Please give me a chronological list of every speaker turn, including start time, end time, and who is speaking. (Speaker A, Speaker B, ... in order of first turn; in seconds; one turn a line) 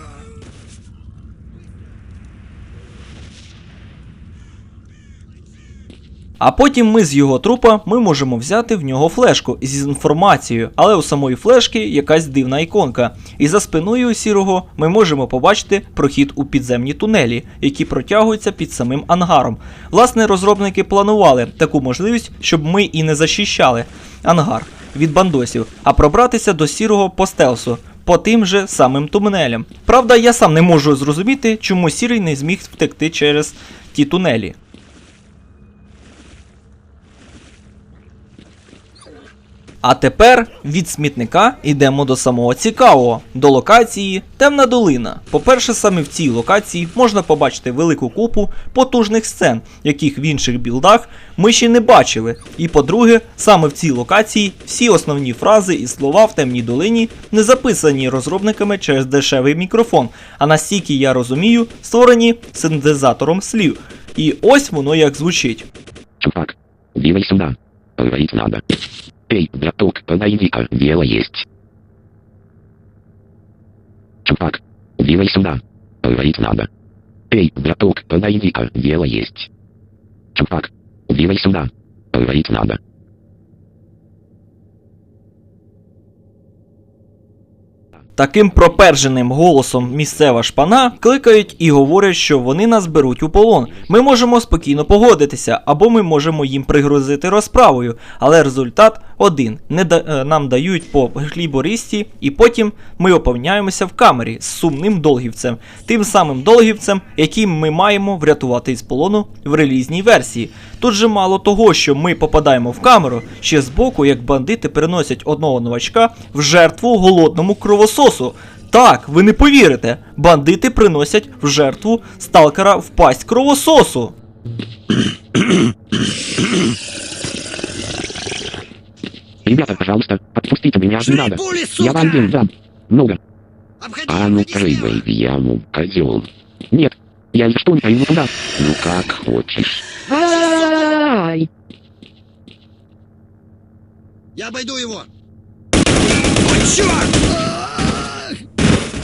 Speaker A: 6.4-34.5
Speaker A: 39.8-65.7
Speaker B: 66.2-68.6
Speaker B: 69.3-71.5
Speaker B: 74.2-76.7
Speaker B: 77.3-79.5
Speaker B: 80.3-82.8
Speaker A: 88.2-124.1
Speaker B: 129.4-133.2
Speaker C: 131.5-131.8
Speaker B: 134.0-141.4
Speaker C: 144.3-145.1
Speaker C: 146.4-148.3